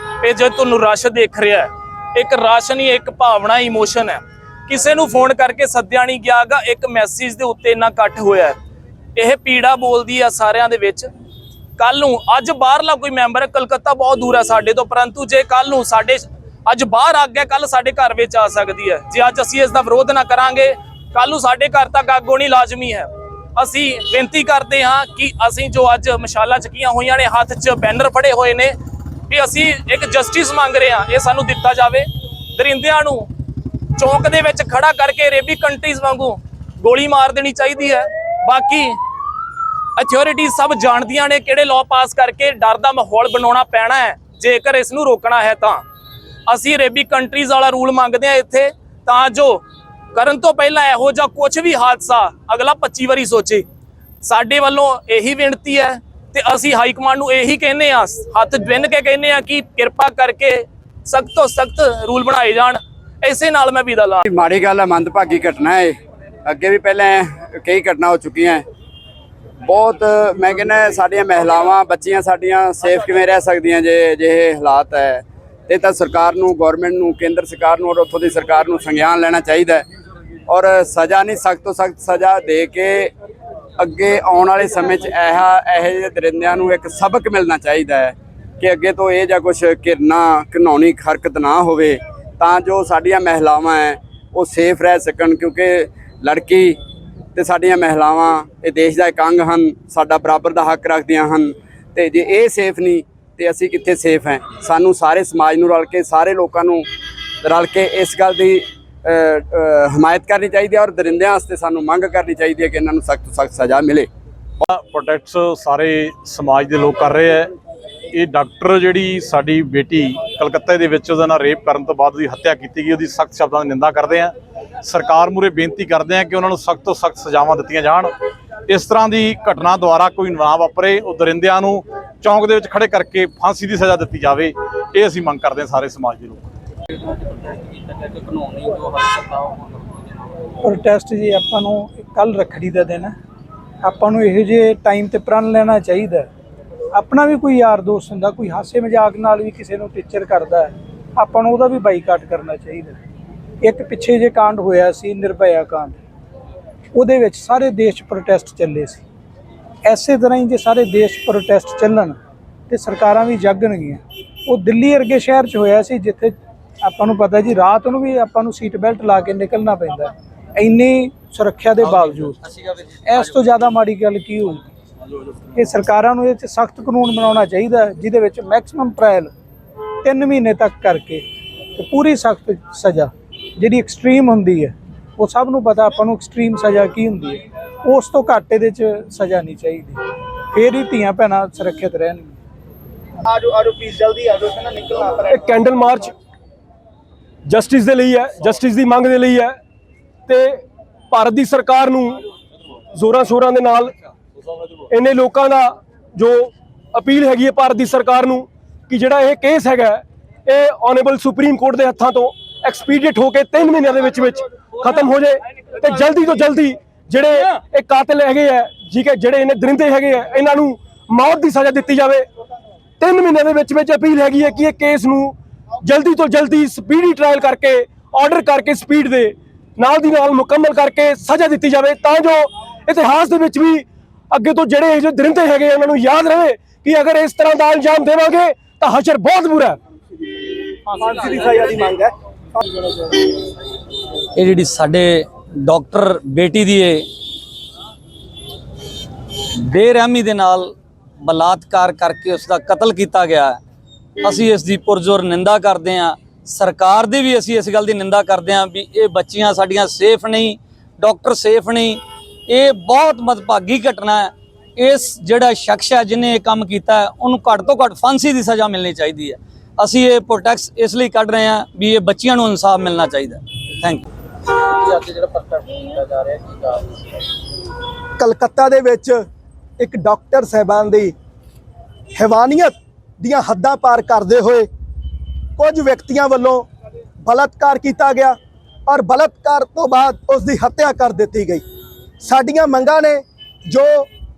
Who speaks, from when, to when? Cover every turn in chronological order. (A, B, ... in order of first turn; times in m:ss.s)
0:00.2-0:08.6 A
0:09.2-0:11.1 A
0:11.8-0:28.7 A
0:29.3-0:32.0 A
0:32.6-0:33.3 A
0:34.0-0:39.0 A
0:40.0-0:45.8 A
0:46.5-0:49.6 A
0:50.1-0:53.6 A
0:54.2-1:04.2 A
1:04.3-1:08.6 B
1:09.6-1:19.8 B
1:20.5-1:23.1 B
1:23.8-1:36.8 B
1:37.4-1:46.8 B
1:47.4-1:54.1 B
1:54.6-1:57.5 C
1:58.1-2:04.3 C
2:04.8-2:08.1 C
2:08.7-2:16.5 C
2:17.0-2:20.2 D
2:20.6-2:23.1 E
2:23.8-2:26.3 E
2:27.0-2:33.0 E
2:33.6-2:35.9 E
2:37.0-2:39.0 E
2:39.8-2:42.2 E
2:42.7-2:46.3 E
2:46.8-2:52.4 E
2:51.9-2:52.8 D
2:53.0-2:54.6 E
2:55.5-2:59.3 E
3:00.0-3:01.2 E
3:01.8-3:10.0 E
3:10.5-3:12.4 E
3:13.4-3:15.2 F
3:15.3-3:16.1 G
3:17.5-3:19.6 G
3:20.3-3:22.2 G
3:22.9-3:23.9 G
3:24.9-3:42.3 G
3:43.0-3:59.8 G
4:00.9-4:02.1 F
4:04.4-4:07.0 H
4:09.7-4:10.7 H
4:11.2-4:13.6 H
4:14.2-4:34.0 H
4:34.6-4:37.0 D
4:38.2-4:39.2 F
4:39.8-4:41.1 F
4:42.2-4:44.7 F
4:45.6-4:46.7 F
4:47.2-4:51.6 F
4:52.2-4:54.1 F